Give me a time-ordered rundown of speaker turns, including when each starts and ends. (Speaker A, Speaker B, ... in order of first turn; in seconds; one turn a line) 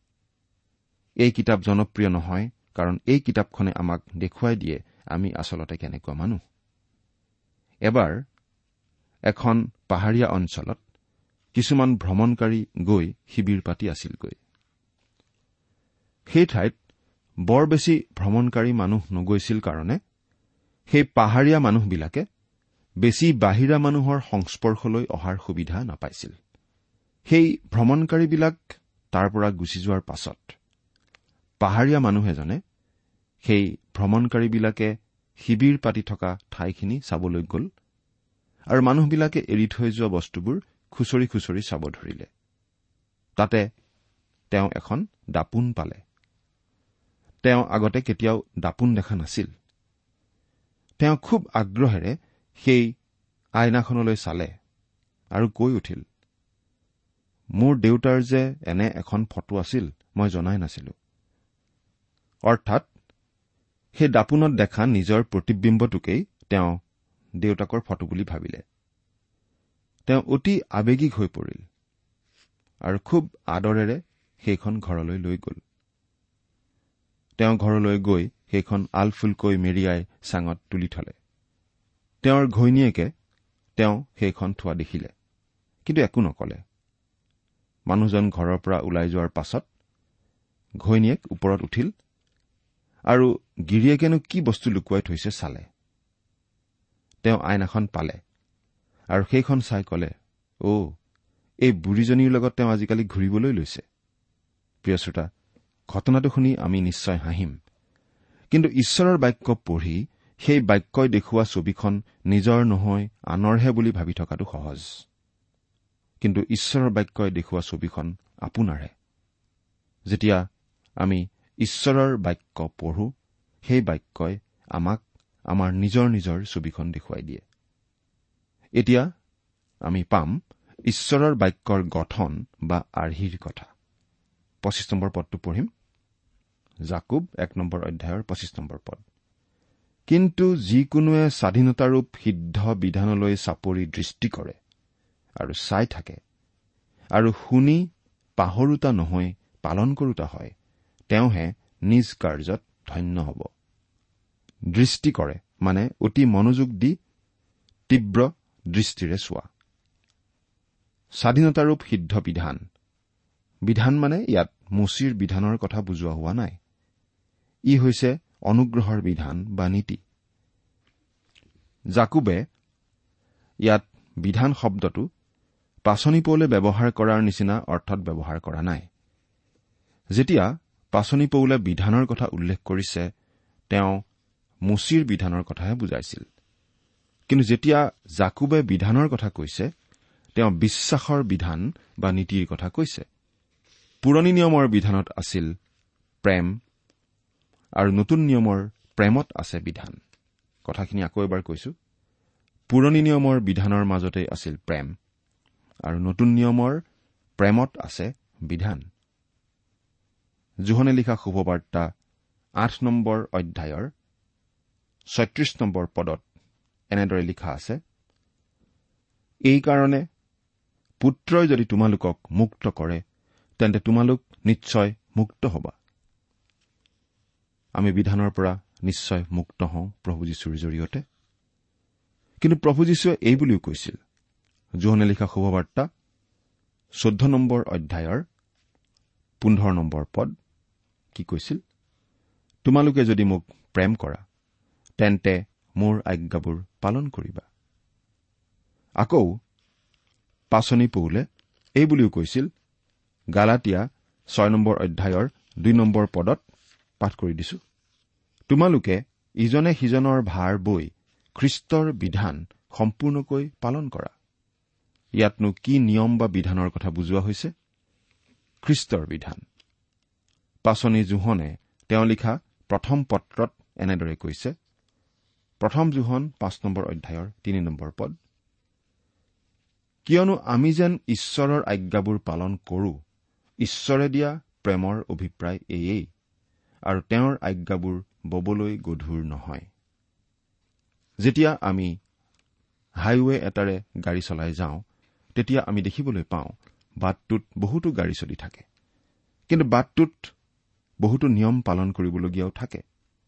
Speaker A: 1.2-6.4
Speaker A: 7.9-8.2
Speaker A: 9.3-10.8
Speaker A: 11.5-14.4
Speaker A: 16.3-16.7
Speaker A: 17.5-20.0
Speaker A: 20.9-22.2
Speaker A: 23.0-26.4
Speaker A: 27.3-28.6
Speaker A: 29.1-30.5
Speaker A: 31.6-32.6
Speaker A: 33.4-37.7
Speaker A: 38.7-42.3
Speaker A: 43.4-43.7
Speaker A: 44.5-46.0
Speaker A: 47.4-49.5
Speaker A: 51.0-52.9
Speaker A: 53.6-54.5
Speaker A: 55.3-56.0
Speaker A: 57.5-60.9
Speaker A: 62.5-62.9
Speaker A: 63.9-66.8
Speaker A: 67.4-68.6
Speaker A: 70.1-71.6
Speaker A: 72.8-75.6
Speaker A: 77.4-81.1
Speaker A: 82.2-83.1
Speaker A: 83.8-85.1
Speaker A: 85.8-86.6
Speaker A: 87.9-89.6
Speaker A: 90.8-91.9
Speaker A: 93.1-95.7
Speaker A: 97.2-98.2
Speaker A: 99.1-100.1
Speaker A: 100.6-100.9
Speaker A: 101.6-103.8
Speaker A: 104.8-105.3
Speaker A: 105.9-107.6
Speaker A: 108.5-114.9
Speaker A: 116.2-118.9
Speaker A: 120.1-120.4
Speaker A: 121.0-123.1
Speaker A: 123.6-127.4
Speaker A: 128.8-129.1
Speaker A: 129.8-133.7
Speaker A: 134.6-135.7
Speaker A: 136.9-139.0
Speaker A: 140.1-144.6
Speaker A: 145.4-146.2
Speaker A: 147.2-147.9
Speaker A: 148.4-150.5
Speaker A: 151.1-153.5
Speaker A: 154.7-156.9
Speaker A: 157.9-159.5
Speaker A: 161.2-162.6
Speaker A: 163.7-166.6
Speaker A: 167.7-170.0
Speaker A: 171.9-172.4
Speaker A: 173.6-175.1
Speaker A: 175.8-178.8
Speaker A: 180.1-183.1
Speaker A: 183.7-184.0
Speaker A: 184.7-186.2
Speaker A: 187.3-189.7
Speaker A: 190.3-193.0
Speaker A: 194.0-195.5
Speaker A: 196.2-196.6
Speaker A: 197.8-200.0
Speaker A: 200.6-201.7
Speaker A: 202.7-204.9
Speaker A: 205.8-206.8
Speaker A: 207.4-208.8
Speaker A: 210.7-211.9
Speaker A: 212.6-213.9
Speaker A: 215.1-216.2
Speaker A: 216.9-217.8
Speaker A: 219.5-220.0
Speaker A: 221.0-223.0
Speaker A: 223.6-225.8
Speaker A: 227.8-231.0
Speaker A: 232.4-234.0
Speaker A: 234.8-235.9
Speaker A: 237.0-238.2
Speaker A: 239.4-240.3
Speaker A: 241.1-241.6
Speaker A: 242.6-244.2
Speaker A: 245.0-247.4
Speaker A: 249.0-249.3
Speaker A: 250.5-251.2
Speaker A: 251.8-252.5
Speaker A: 253.3-256.4
Speaker A: 257.0-257.6
Speaker A: 258.5-264.1
Speaker A: 265.2-267.5
Speaker A: 268.6-269.4
Speaker A: 270.6-274.5
Speaker A: 275.6-278.1
Speaker A: 280.0-283.0
Speaker A: 283.6-286.1
Speaker A: 286.9-289.7
Speaker A: 291.2-291.9
Speaker A: 293.0-294.8
Speaker A: 295.4-298.6
Speaker A: 299.5-300.3
Speaker A: 301.0-302.8